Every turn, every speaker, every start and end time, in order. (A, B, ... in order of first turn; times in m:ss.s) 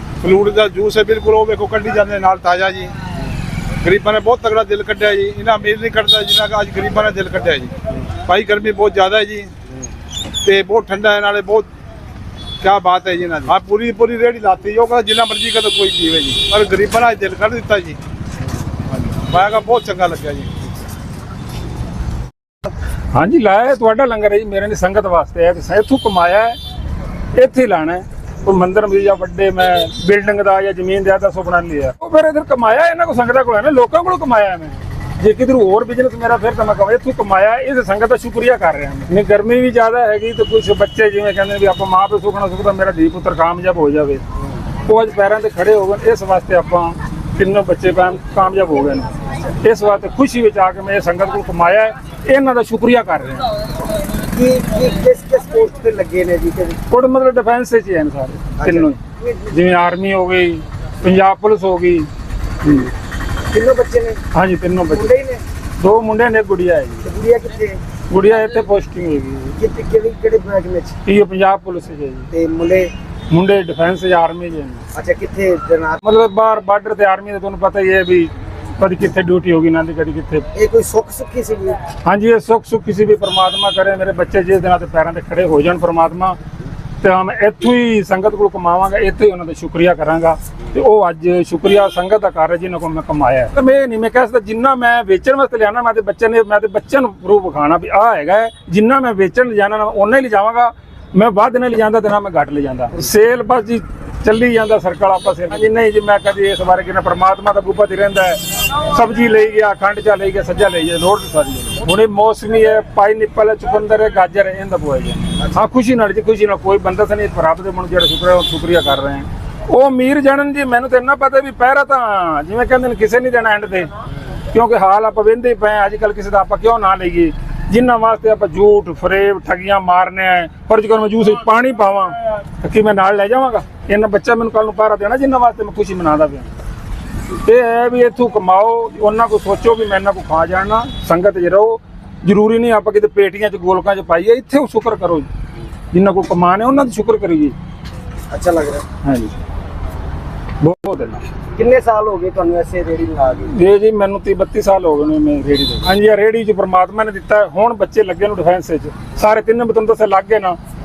0:00.2-0:02.9 A
0:03.8-0:07.7 A
0:08.2-0:09.5 A
0:10.4-0:11.7 A
0:12.6-0:18.0 A
0:19.3-0:20.5 A
0:23.1-0:26.6 B
0:27.3-0:44.2 B
0:44.8-0:53.5 B
0:54.3-0:56.8 C
0:56.9-1:02.1 B
0:58.6-0:59.5 C
1:02.6-1:02.9 B
1:03.5-1:04.2 C
1:04.3-1:05.2 B
1:04.9-1:05.4 C
1:05.8-1:07.0 B
1:07.0-1:07.8 C
1:08.1-1:09.6 B
1:09.6-1:11.0 C
1:11.0-1:12.3 B
1:12.3-1:12.9 C
1:13.3-1:14.8 B
1:14.9-1:16.0 C
1:16.0-1:20.5 B
1:20.5-1:21.8 C
1:22.0-1:26.4 B
1:27.0-2:03.9 B
2:04.5-2:16.5 B
2:17.4-2:25.3 B
2:25.9-2:27.6 B
2:28.3-2:28.8 C
2:29.0-2:29.3 B
2:30.6-2:31.2 B
2:31.5-2:33.5 C
2:33.5-2:40.6 B